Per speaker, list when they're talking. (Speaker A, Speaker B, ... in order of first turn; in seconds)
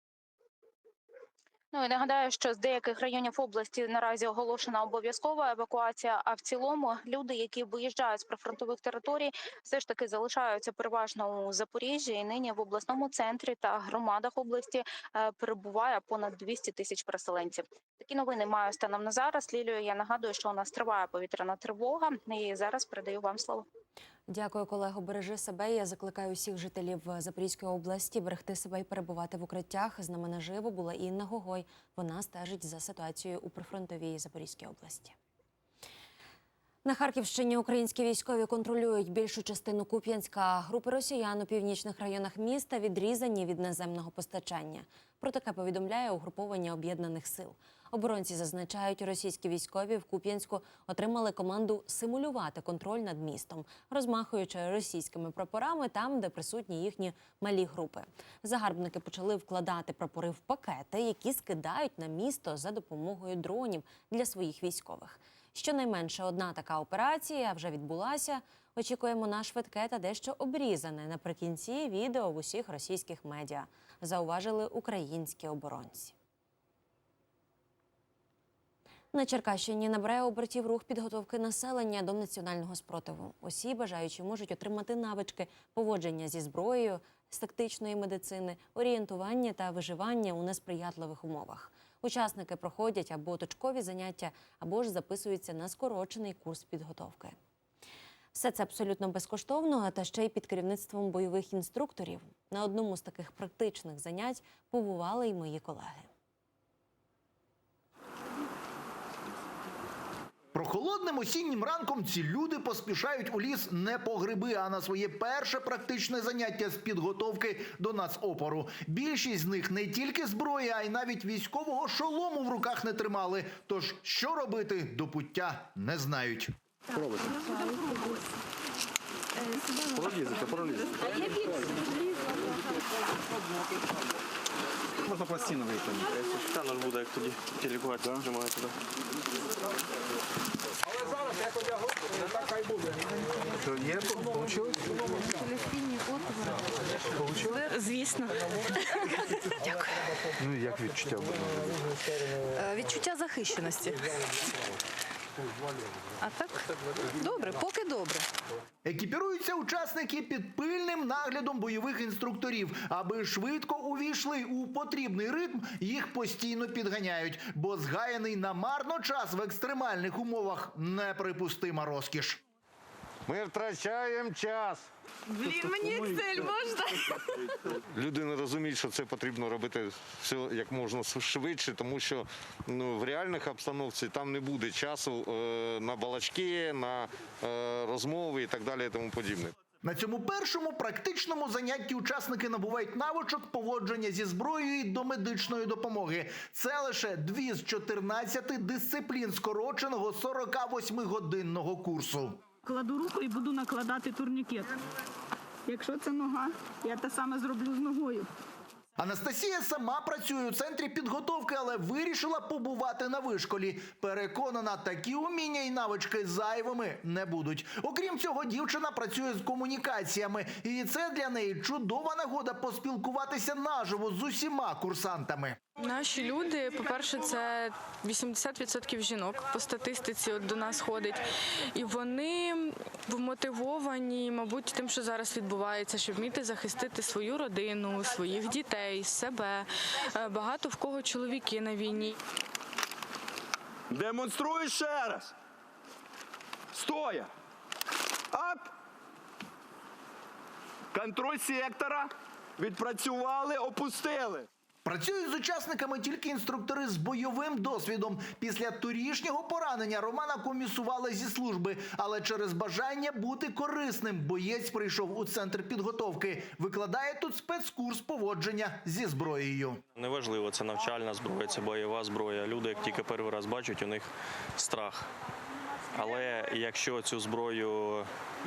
Speaker A: 1.7-23.7
Speaker B: 24.3-35.1, 36.9-76.1, 79.1-97.4, 98.3-106.1
Speaker C: 110.5-126.5, 158.8-172.4, 189.8-202.4, 209.0-225.6, 254.8-269.8
Speaker D: 127.0-127.3, 130.1-130.8, 135.1-136.0, 243.9-245.3, 246.7-247.3, 248.3-248.7, 250.9-254.5
Speaker E: 136.2-138.8, 270.0-275.1, 275.9-278.1
Speaker F: 145.4-146.4, 147.7-148.4, 175.4-177.0, 225.8-242.2
Speaker G: 147.4-147.7, 152.6-153.8, 156.2-156.6, 157.2-158.2
Speaker H: 173.3-174.9, 177.9-189.5
Speaker I: 202.6-204.7, 205.7-208.3